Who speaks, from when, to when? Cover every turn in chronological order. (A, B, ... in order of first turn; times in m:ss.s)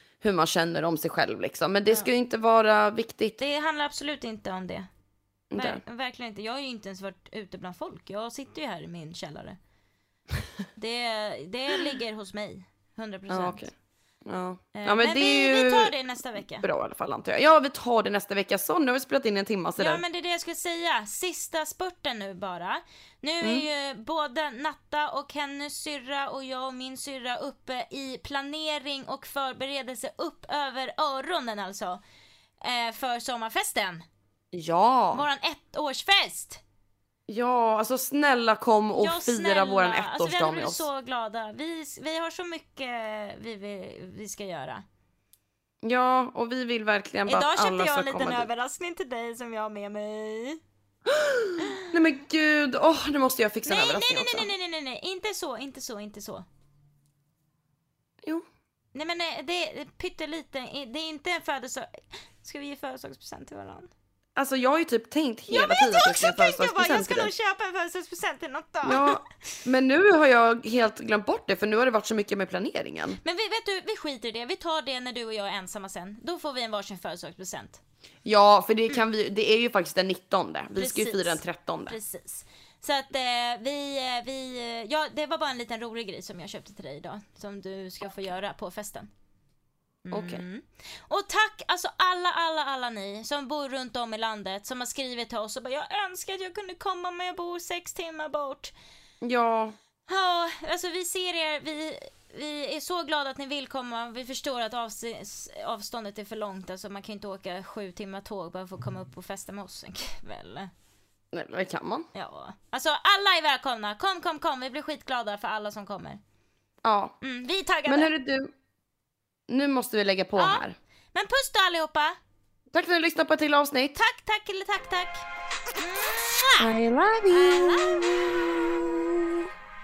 0:00.2-0:03.4 A
0:03.4-0:04.9 B
0:05.5-0:05.8 A
0:05.5-0:09.6 B
0:10.8-0:13.6 B
0:13.3-0:13.7 A
0:14.2-0:15.9 A
0:14.7-0:16.6 B
0:16.6-0:20.0 A
0:19.8-0:32.0 B
0:32.6-0:34.0 B
0:34.5-0:35.2 A
0:35.1-0:36.6 B
0:37.3-0:40.8 A
0:39.0-0:44.8 B
0:45.8-0:48.5 A
0:47.3-0:50.6 B
0:51.1-0:54.5 A
0:53.6-0:56.4 B
0:58.9-1:03.9 B
1:04.4-1:07.3 A
1:05.5-1:09.3 B
1:08.8-1:13.2 A
1:13.2-1:17.8 B
1:18.2-1:22.0 A
1:20.7-1:29.1 B
1:30.0-1:38.7 B
1:30.1-1:30.4 A
1:39.2-1:39.8 A
1:40.1-1:50.7 B
1:51.3-1:52.1 A
1:52.1-1:56.2 B
1:56.8-1:57.1 A
1:57.2-1:58.1 B
1:57.8-1:58.5 A
1:59.5-2:00.8 A
2:00.4-2:02.2 B
2:02.7-2:04.0 A
2:03.9-2:06.7 B
2:06.6-2:09.5 A
2:07.3-2:08.1 B